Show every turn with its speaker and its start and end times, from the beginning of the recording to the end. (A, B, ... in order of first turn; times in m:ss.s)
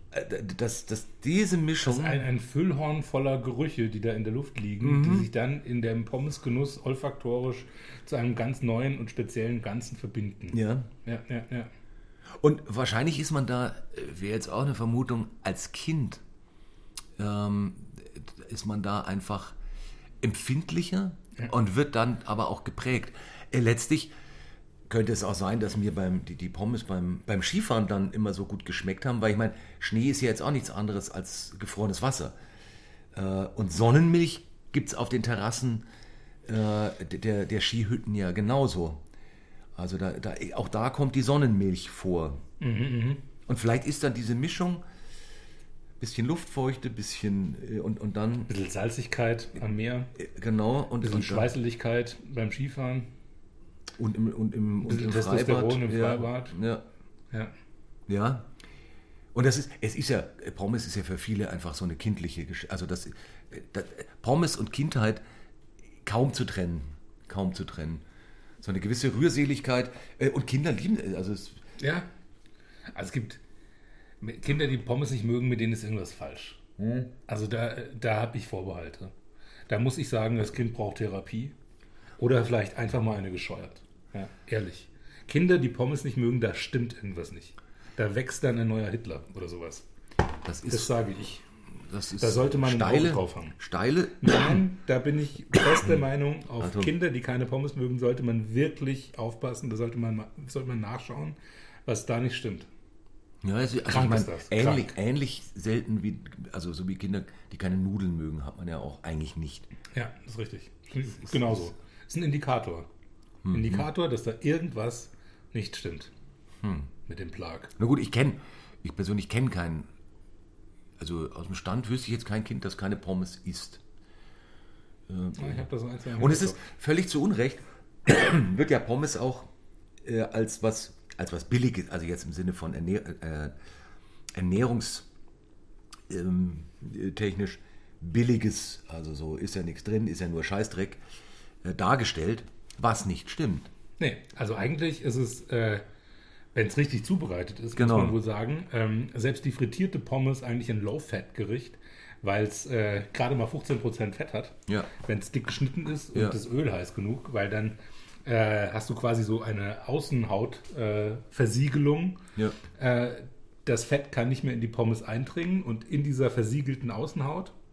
0:00.1-0:02.3 A
0:01.8-0:11.7 B
0:04.8-0:05.3 A
0:10.5-0:10.9 A
0:12.4-0:16.2 A
0:17.2-0:19.6 A
0:20.2-0:24.1 A
0:24.9-0:32.4 A
0:33.1-0:35.8 A
0:36.5-0:39.0 A
0:39.8-0:42.4 A
0:42.6-0:43.2 B
0:43.5-0:44.8 A
0:46.0-0:48.5 A
0:48.5-0:50.1 B
0:50.2-0:51.5 A
0:51.0-0:53.1 B
0:54.0-0:56.8 A
0:54.8-0:56.6 B
0:58.1-0:58.5 A
0:59.3-1:05.2 A
1:06.0-1:08.0 A
1:08.6-1:11.6 A
1:11.8-1:12.1 B
1:12.9-1:13.4 B
1:14.2-1:16.6 B
1:17.3-1:19.1 B
1:19.7-1:21.5 B
1:22.2-1:29.9 B
1:30.4-1:30.9 A
1:30.7-1:31.4 B
1:31.9-1:34.6 A
1:32.2-1:33.6 B
1:34.2-1:42.7 B
1:36.6-1:36.9 A
1:43.4-1:49.7 A
1:43.9-1:44.9 B
1:49.9-1:52.9 B
1:53.4-1:53.9 A
1:53.5-1:56.1 B
1:56.6-1:56.9 A
1:57.1-1:57.7 B
1:57.8-1:59.9 A
2:01.0-2:03.8 A
2:05.1-2:09.5 A
2:05.4-2:06.6 B
2:10.0-2:13.5 A
2:14.3-2:15.1 A
2:16.1-2:21.0 A
2:21.6-2:23.7 A
2:24.0-2:25.8 B
2:26.6-2:42.2 B
2:27.8-2:28.2 A
2:42.8-2:47.5 B